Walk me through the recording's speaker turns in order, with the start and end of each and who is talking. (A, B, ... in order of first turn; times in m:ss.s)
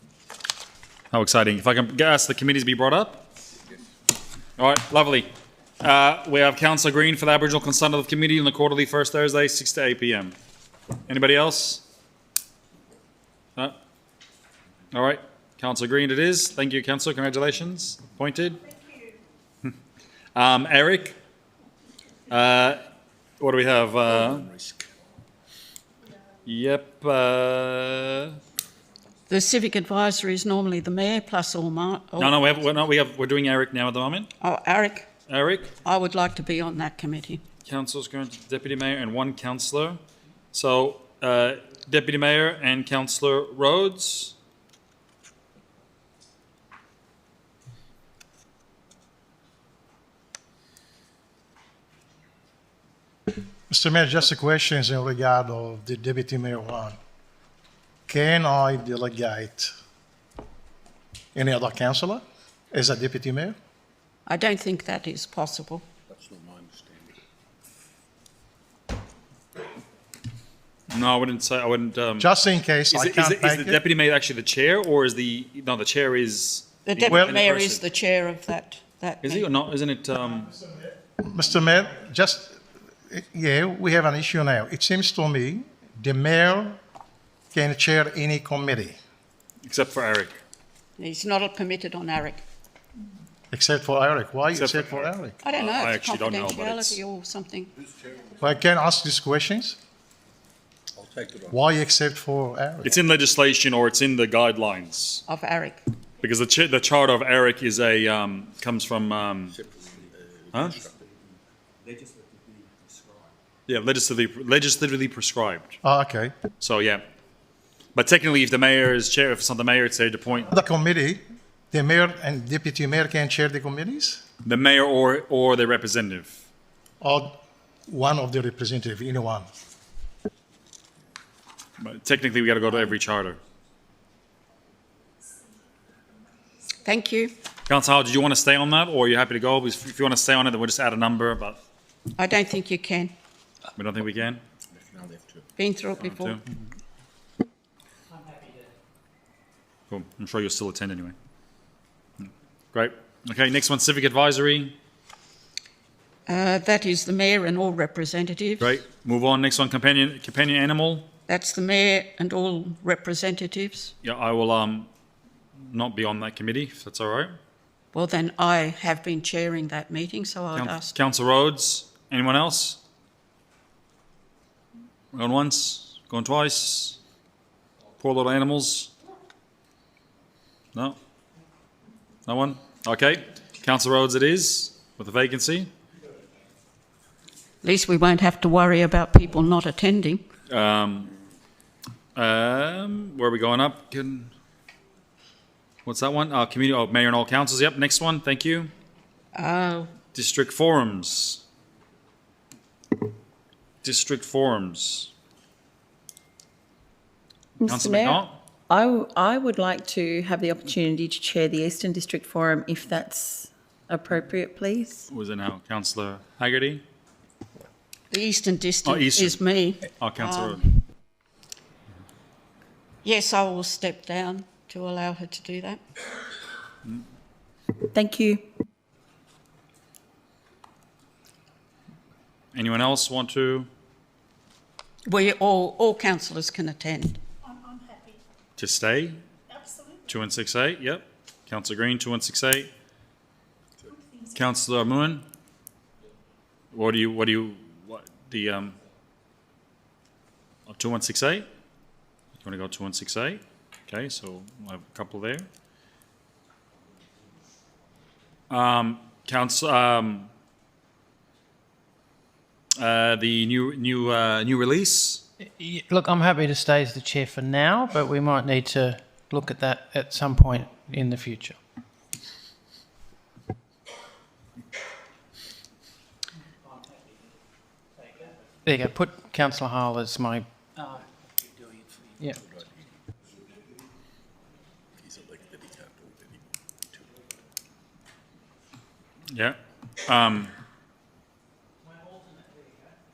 0:01.1-0:03.2 A
0:04.6-0:05.3 A
0:05.8-0:10.4 A
0:11.1-0:11.8 A
0:14.9-0:18.6 A
0:20.3-0:21.2 A
0:22.3-0:22.8 A
0:23.4-0:24.5 A
0:24.4-0:24.8 B
0:26.4-0:28.4 A
0:29.3-0:32.4 C
0:32.2-0:34.3 A
0:34.4-0:35.0 C
0:35.3-0:35.7 A
0:35.8-0:37.4 C
0:37.6-0:40.0 A
0:40.5-0:44.3 A
0:53.7-0:57.0 D
0:58.1-0:59.7 D
1:01.3-1:03.5 D
1:04.3-1:05.8 C
1:06.1-1:07.1 B
1:10.9-1:12.3 A
1:12.2-1:13.8 D
1:12.9-1:17.8 A
1:16.8-1:19.5 C
1:19.2-1:20.5 A
1:21.2-1:26.8 D
1:27.5-1:29.0 D
1:29.6-1:30.3 A
1:31.0-1:32.4 C
1:33.5-1:35.3 D
1:34.5-1:37.0 A
1:35.4-1:37.7 C
1:38.4-1:39.8 D
1:41.0-1:41.5 B
1:41.5-1:42.9 D
1:42.8-1:45.2 A
1:45.3-1:45.8 C
1:46.2-1:49.6 A
1:49.6-1:51.0 B
1:50.5-1:50.8 A
1:51.8-1:52.7 B
1:53.7-1:55.8 A
1:55.8-1:56.3 D
1:56.6-1:57.0 A
1:57.9-2:00.5 A
2:00.5-2:04.2 D
2:04.4-2:06.4 A
2:07.0-2:09.5 D
2:11.8-2:13.4 A
2:16.8-2:17.3 C
2:17.7-2:21.6 A
2:22.2-2:23.1 C
2:23.8-2:24.4 A
2:24.8-2:25.4 B
2:25.6-2:26.4 C
2:26.0-2:26.4 A
2:29.9-2:31.1 A
2:32.2-2:34.7 A
2:36.3-2:38.8 C
2:38.6-2:41.1 A
2:41.3-2:43.9 C
2:44.0-2:44.9 A
2:45.7-2:47.3 A
2:47.9-2:50.9 C
2:50.5-2:52.8 A
2:55.1-2:57.0 A
2:58.0-2:58.9 A
3:02.2-3:05.7 A
3:07.6-3:10.2 C
3:10.5-3:11.1 A
3:12.2-3:14.3 A
3:15.8-3:18.7 A
3:19.3-3:19.9 C
3:20.1-3:21.4 A
3:23.8-3:25.1 A
3:27.6-3:35.1 E
3:27.6-3:28.4 A
3:35.1-3:36.8 A
3:38.1-3:40.6 C
3:38.8-3:39.4 A
3:40.0-3:40.6 A
3:43.0-3:45.8 C
3:47.9-3:48.4 E
3:52.5-3:53.7 A
3:55.1-3:57.2 C
3:58.6-3:59.2 A
4:00.1-4:02.7 A
4:04.3-4:05.2 A
4:06.7-4:08.8 A
4:10.7-4:11.5 A
4:12.4-4:15.5 A
4:18.5-4:20.3 A
4:22.8-4:25.2 A
4:25.4-4:31.6 F
4:38.6-4:41.0 F
4:42.2-4:42.4 F
4:42.4-4:42.7 B
4:45.0-4:46.4 B
4:49.3-4:50.5 A